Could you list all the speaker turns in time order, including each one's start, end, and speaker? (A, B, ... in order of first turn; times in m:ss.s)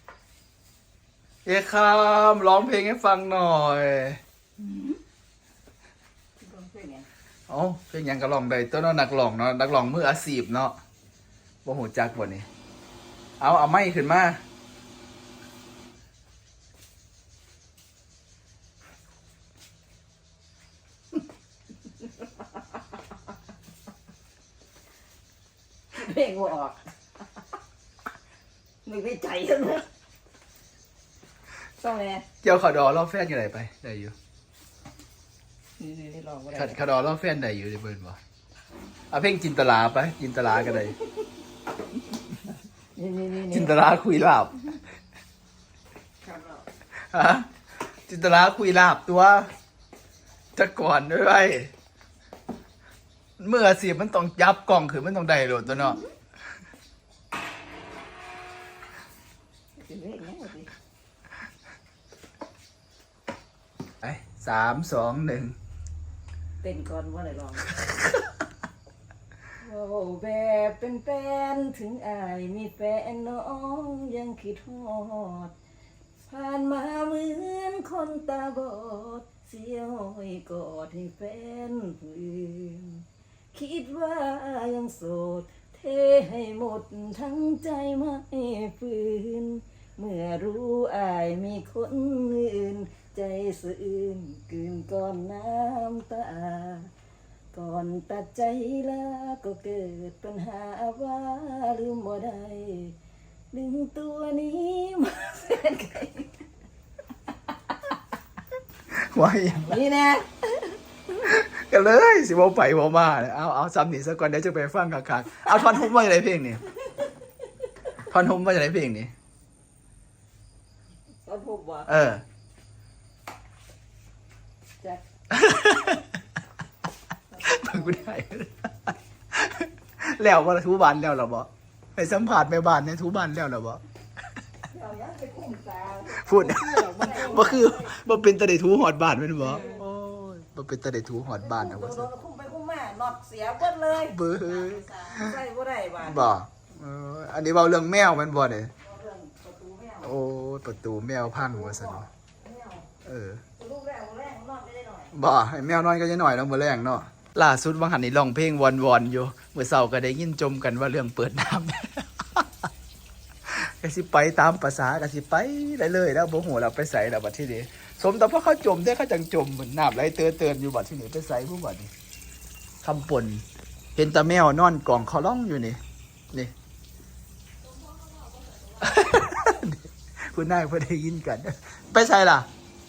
0:01.4-0:04.2 A
0:04.6-0:05.0 B
0:06.4-0:07.1 B
0:07.5-0:10.8 A
0:11.6-0:12.5 A
0:13.4-0:14.4 A
0:25.9-0:26.8 B
0:28.8-0:29.8 B
0:31.8-0:32.2 B
0:32.4-0:34.1 A
0:35.8-0:36.8 B
0:36.5-0:38.2 A
0:39.1-0:41.0 A
0:40.6-0:41.2 B
0:42.9-0:43.7 B
0:43.5-0:44.6 A
0:46.2-0:46.6 B
0:47.1-0:47.5 A
0:48.1-0:49.5 A
0:50.5-0:51.7 A
0:53.4-0:56.0 A
0:55.7-0:56.1 B
0:59.8-1:00.7 B
1:04.0-1:05.6 A
1:06.6-1:07.9 B
1:09.6-1:15.5 B
1:16.2-1:36.9 B
1:37.5-1:43.0 B
1:43.5-1:46.4 B
1:48.9-1:49.8 A
1:49.7-1:50.8 B
1:51.2-1:56.6 A
1:58.0-1:59.1 A
2:01.2-2:01.9 B
2:01.9-2:02.2 A
2:05.3-2:06.0 A
2:07.3-2:08.1 B
2:07.4-2:13.8 A
2:14.7-2:18.0 B
2:16.1-2:22.1 A
2:19.4-2:19.8 B
2:21.4-2:26.3 B
2:24.1-2:25.4 A
2:26.0-2:28.7 A
2:28.8-2:30.1 B
2:30.0-2:32.0 A
2:31.3-2:32.9 B
2:33.0-2:33.4 A
2:33.6-2:35.1 B
2:35.1-2:42.5 A
2:43.5-2:51.9 A
2:52.8-2:53.4 A
2:54.0-2:55.8 A
2:57.6-2:59.2 B
2:58.8-3:02.5 A